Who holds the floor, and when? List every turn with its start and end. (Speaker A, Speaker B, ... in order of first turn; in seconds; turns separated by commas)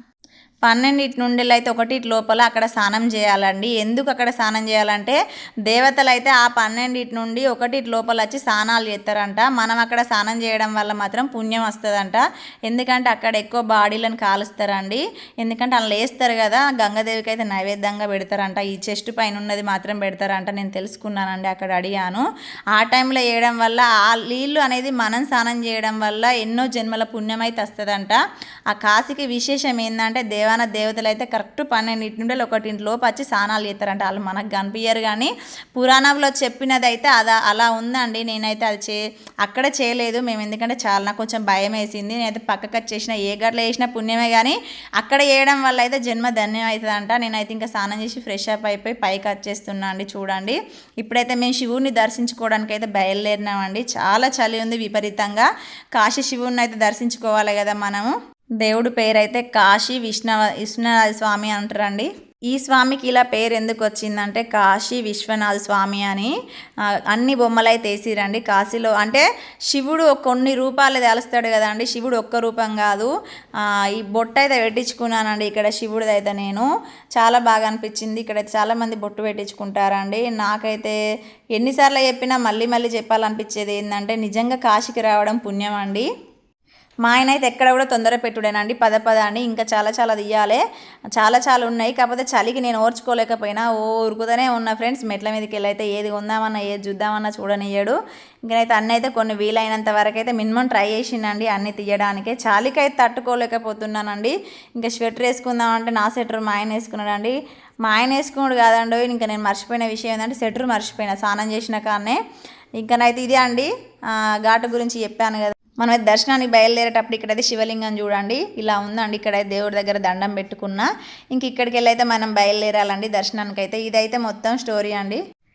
Speaker A: 0.7-28.2, Speaker A: 28.7-66.3, Speaker A: 67.1-81.0, Speaker A: 81.5-86.1, Speaker A: 87.0-90.6, Speaker A: 91.2-112.2, Speaker A: 112.8-125.2